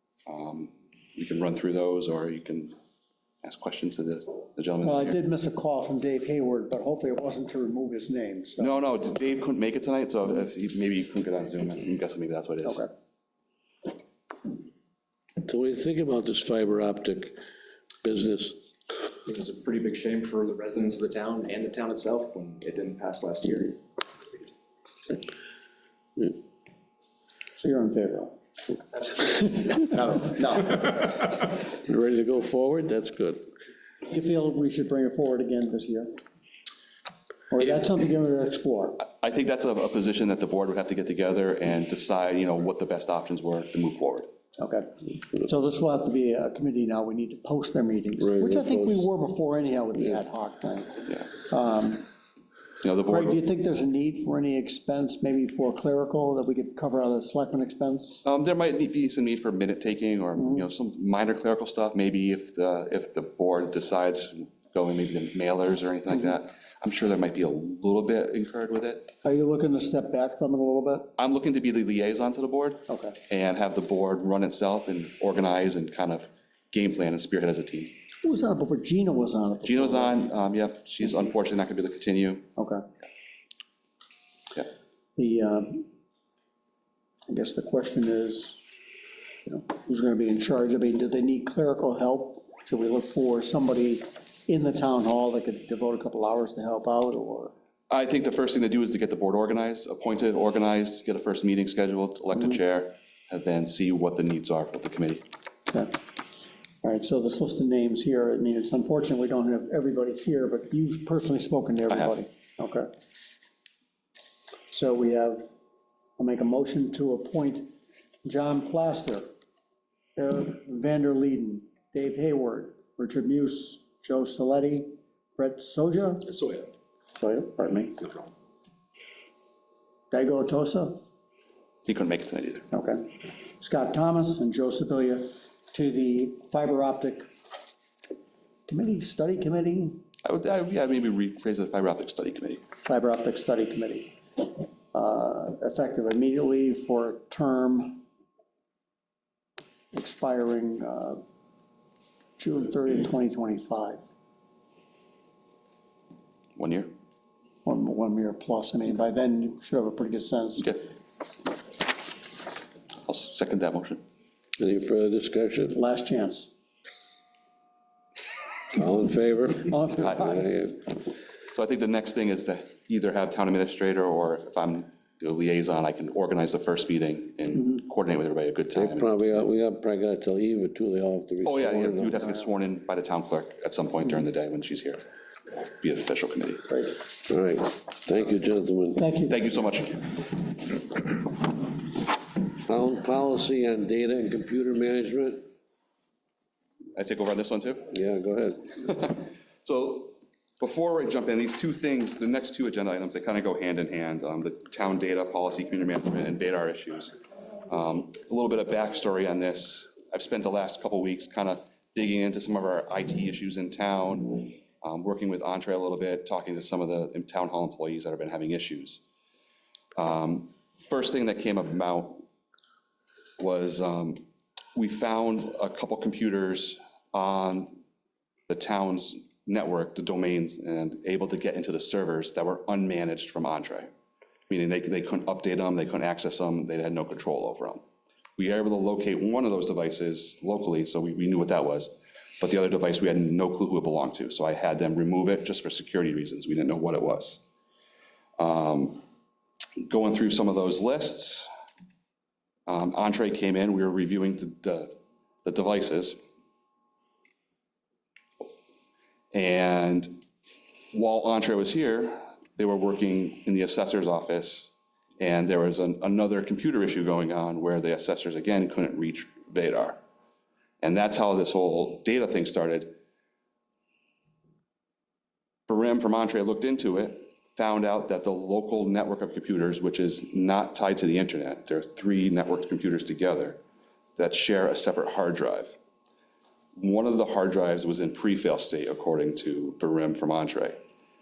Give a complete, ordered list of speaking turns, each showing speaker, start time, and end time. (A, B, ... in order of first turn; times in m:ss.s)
0:00.3-0:02.8 A
0:03.4-0:05.2 A
0:04.8-0:08.7 B
0:08.6-0:12.9 A
0:12.6-0:12.9 B
0:15.4-0:17.4 C
0:18.0-0:18.6 C
0:19.2-0:23.8 D
0:27.6-0:28.3 B
0:29.2-0:31.2 B
0:31.7-0:33.5 C
0:34.1-0:36.2 B
0:37.5-0:39.0 B
0:39.0-0:44.3 A
0:44.6-0:52.1 B
0:48.2-0:49.0 C
0:52.8-0:53.4 A
0:53.1-0:58.2 B
0:58.2-1:09.1 A
1:00.4-1:00.6 B
1:09.2-1:11.1 B
1:11.2-1:17.9 A
1:12.9-1:13.2 B
1:18.2-1:20.3 B
1:19.6-1:22.4 A
1:22.6-1:22.8 B
1:25.2-1:25.9 B
1:27.3-1:28.6 B
1:29.4-1:37.5 B
1:37.9-1:45.2 A
1:46.8-1:52.9 B
1:54.7-1:55.5 B
1:56.2-1:57.7 B
1:58.2-1:59.3 B
2:00.2-2:06.3 B
2:06.3-2:06.7 D
2:07.1-2:08.1 B
2:10.1-2:11.0 B
2:11.9-2:12.7 A
2:12.7-2:17.3 B
2:18.7-2:20.0 B
2:20.2-2:22.6 A
2:22.8-2:24.1 B
2:24.9-2:28.0 B
2:29.9-2:31.2 B
2:32.4-2:34.0 B
2:36.6-2:36.9 A
2:37.6-2:40.7 B
2:43.1-2:44.0 A
2:44.6-2:45.8 C
2:45.8-2:46.5 B
2:48.7-2:50.8 C
2:49.7-2:50.4 B
2:50.0-2:50.4 A
2:51.5-2:59.1 A
2:58.8-3:02.2 C
3:01.4-3:05.0 A
3:05.8-3:06.7 A
3:06.7-3:07.0 B
3:07.2-3:09.0 C
3:09.0-3:09.3 B
3:09.3-3:10.1 A
3:12.7-3:15.4 C
3:17.0-3:17.9 A
3:17.9-3:18.7 C
3:18.8-3:27.1 A
3:27.7-3:39.0 A
3:40.0-3:42.2 A
3:43.4-3:44.2 A
3:44.8-3:47.8 A
3:48.5-3:53.9 A
3:54.5-3:57.8 A
3:58.4-4:07.4 A
4:08.4-4:09.0 A
4:09.8-4:11.5 A
4:12.7-4:16.2 A
4:19.3-4:20.2 A
4:20.9-4:30.0 A
4:30.8-4:32.9 A
4:35.7-4:43.6 A
4:44.2-4:45.8 A
4:46.8-4:50.8 A